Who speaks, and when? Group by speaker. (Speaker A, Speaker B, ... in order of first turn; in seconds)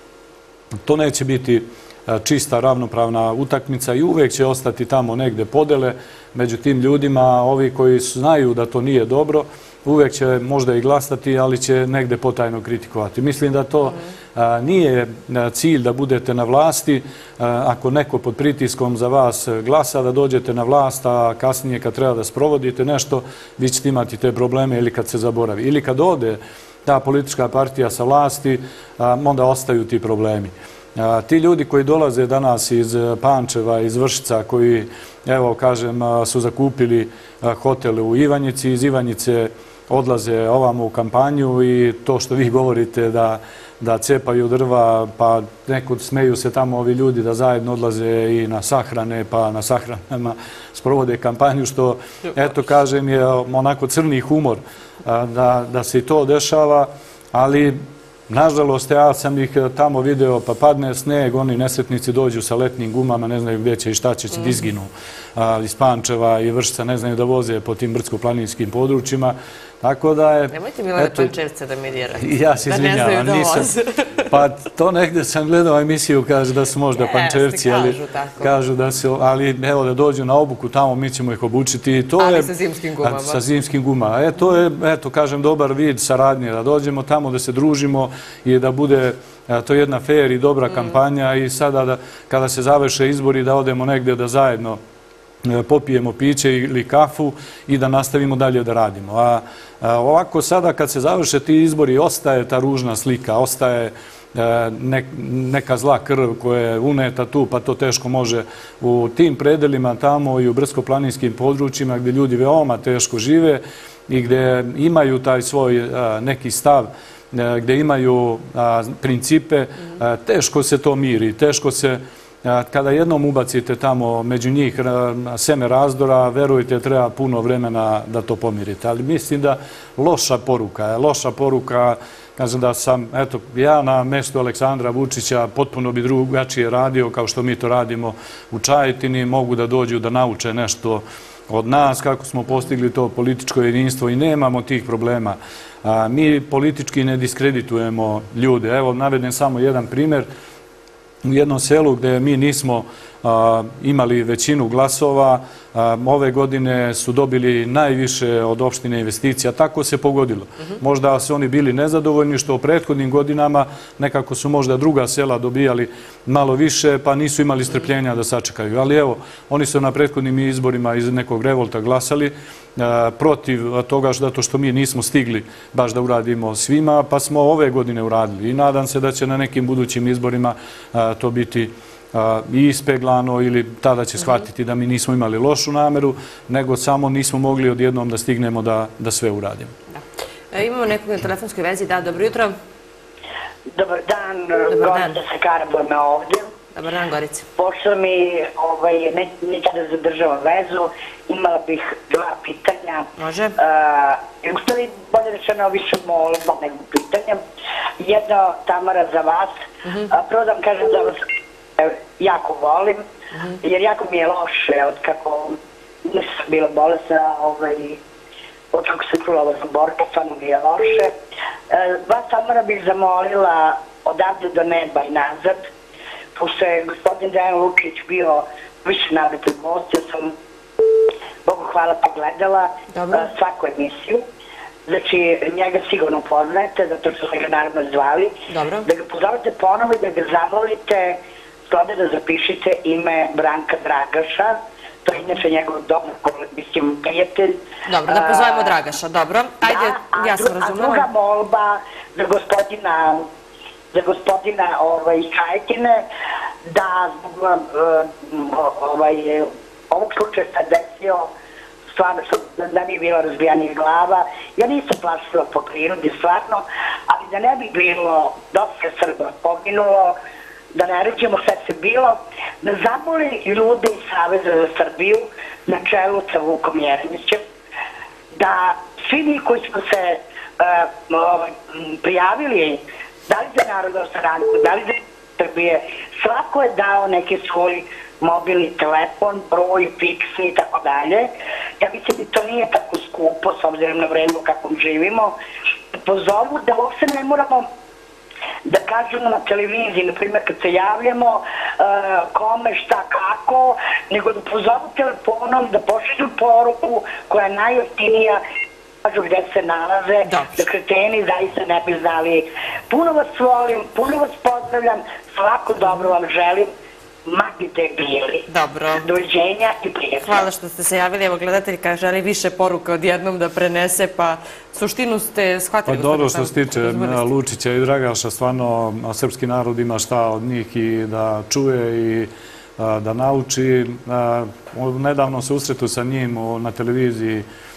Speaker A: 0.8-71.3, 72.2-73.7, 74.3-94.8, 95.4-150.3, 151.2-189.7, 325.9-337.5
Speaker B: 70.5-74.2, 76.9-78.5, 82.2-83.4, 189.9-192.6, 194.7-195.2, 196.8-197.5, 203.2-203.6, 209.9-210.1, 213.3-213.6, 232.9-233.3, 238.5-238.9, 247.9-251.1, 310.2-310.6, 318.5-319.1, 320.2-327.3
Speaker C: 193.7-196.5, 197.6-207.4, 208.0-209.6, 210.1-211.2, 211.8-213.1, 213.6-218.0, 218.7-221.1, 221.7-225.6, 226.4-230.3, 231.4-234.3, 234.9-248.8, 249.6-253.3, 253.9-256.1, 256.7-261.3, 261.9-270.2, 270.7-277.4, 278.4-295.4, 295.9-297.7, 298.7-308.4, 309.0-316.7, 317.3-320.5